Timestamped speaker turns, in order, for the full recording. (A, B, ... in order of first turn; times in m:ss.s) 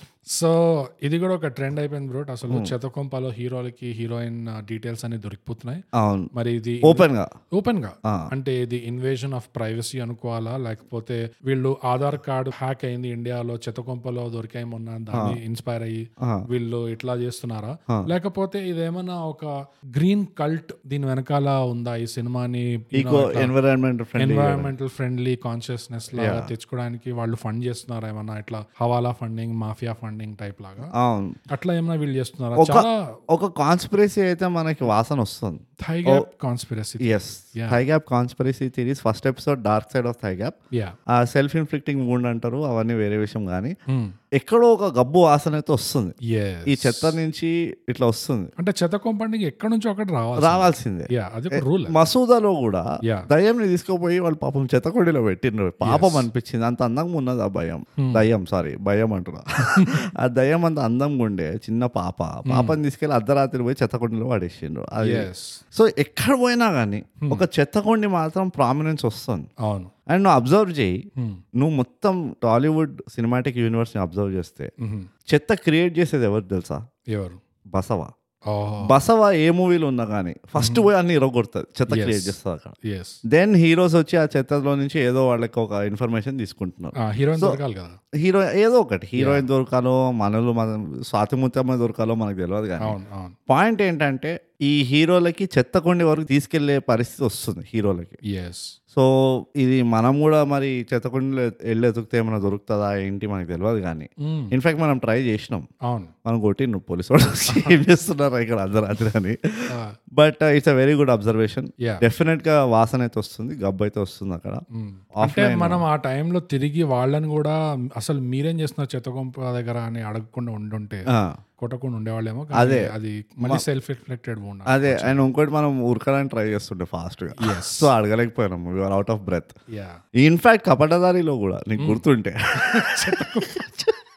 0:00.2-0:23.5 A
0:05.9-0:06.3 B
0:06.8-0:07.3 B
0:16.2-0:16.4 B
0:22.9-0:24.7 B
0:24.2-0:30.9 A
0:26.1-0:26.5 B
0:30.9-0:31.4 B
0:31.5-0:32.9 A
0:32.6-0:36.2 B
0:35.8-0:37.8 A
0:37.0-0:40.5 B
0:41.1-0:43.7 B
0:43.9-0:44.1 A
0:44.4-0:46.1 B
0:46.3-0:47.1 A
0:46.7-0:48.5 B
0:48.6-0:52.0 A
0:50.4-1:09.5 B
0:55.8-0:56.3 A
0:58.0-0:58.2 A
0:59.8-1:00.0 A
1:02.5-1:02.8 A
1:05.0-1:05.6 A
1:09.6-1:09.9 A
1:10.1-1:11.0 B
1:11.2-1:11.4 A
1:11.6-1:14.7 B
1:14.8-1:15.1 A
1:15.3-1:16.8 B
1:17.1-1:17.4 A
1:17.7-1:18.1 B
1:18.5-1:18.9 A
1:18.8-1:22.8 B
1:20.6-1:20.9 A
1:21.9-1:23.2 A
1:23.3-1:27.6 B
1:27.0-1:28.0 A
1:28.2-1:33.0 B
1:29.2-1:29.4 A
1:32.8-1:33.4 A
1:33.5-1:38.2 B
1:38.3-1:38.7 A
1:38.9-1:45.6 B
1:44.2-1:44.5 A
1:45.8-1:46.1 A
1:46.2-1:54.6 B
1:47.4-1:47.7 A
1:54.7-2:01.0 A
1:55.2-1:55.8 B
2:01.1-2:01.4 B
2:01.6-2:05.2 A
2:02.5-2:02.9 B
2:04.7-2:09.5 B
2:07.4-2:07.9 A
2:09.7-2:10.0 A
2:10.2-2:13.9 B
2:12.6-2:13.6 A